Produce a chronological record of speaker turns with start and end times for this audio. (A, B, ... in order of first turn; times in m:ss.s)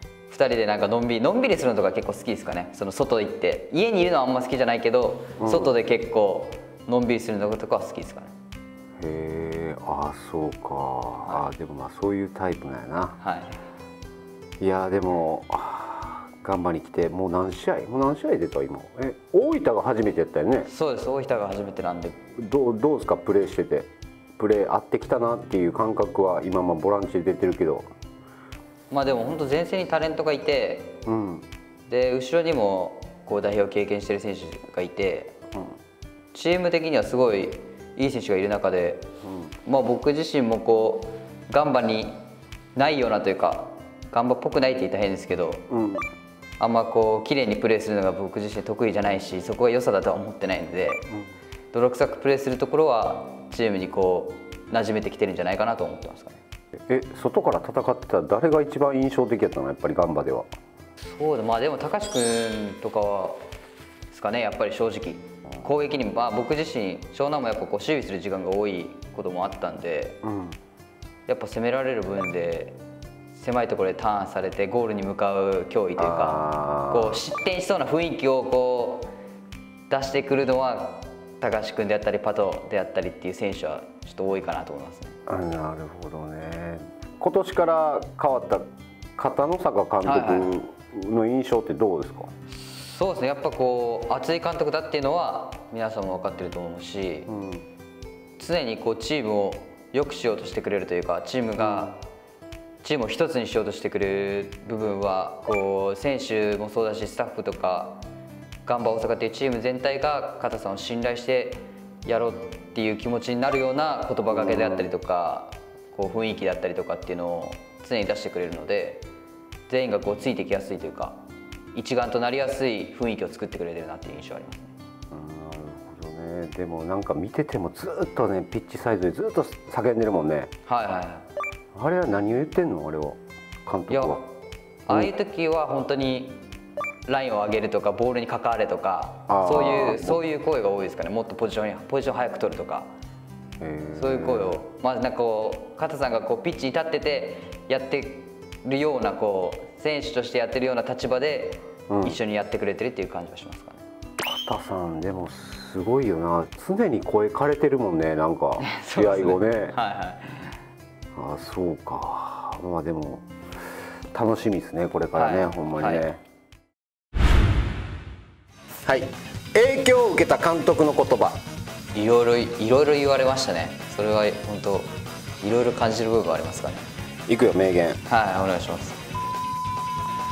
0:00.3-0:08.3 A
0:05.4-0:05.7 B
0:09.0-0:13.2 B
0:13.2-0:13.6 A
0:14.6-0:20.7 B
0:20.6-0:22.2 A
0:22.4-0:27.9 B
0:28.9-0:31.0 A
0:31.0-0:31.4 B
0:31.9-0:35.3 A
0:36.3-0:39.1 A
0:39.2-0:39.5 B
0:39.6-0:42.2 A
0:42.7-0:45.6 A
0:45.7-0:46.1 B
0:46.6-0:51.1 A
0:51.7-0:56.4 A
0:56.9-1:00.5 B
1:01.1-1:03.4 A
1:04.1-1:10.2 A
1:10.2-1:10.6 B
1:11.3-1:12.8 A
1:13.3-1:19.1 A
1:16.0-1:17.2 B
1:19.9-1:25.2 A
1:25.3-1:32.3 B
1:30.0-1:30.6 A
1:32.5-1:37.3 A
1:37.3-1:37.6 B
1:38.4-1:42.0 A
1:41.6-1:41.9 B
1:42.8-1:48.0 A
1:48.6-1:59.0 A
1:54.3-1:54.9 B
1:59.7-2:01.2 A
2:01.7-2:04.7 A
2:05.1-2:10.5 B
2:10.6-2:11.3 A
2:11.7-2:14.2 B
2:13.9-2:14.3 A
2:14.9-2:16.4 A
2:17.1-2:22.9 A
2:19.3-2:20.2 B
2:23.6-2:24.6 B
2:24.0-2:33.8 A
2:31.9-2:32.2 B
2:34.2-2:39.8 B
2:38.6-2:40.6 A
2:41.1-2:43.3 B
2:44.1-2:46.2 B
2:45.1-2:46.1 A
2:48.8-2:51.4 B
2:51.9-2:56.9 A
2:57.3-2:58.0 B
2:58.0-2:59.0 A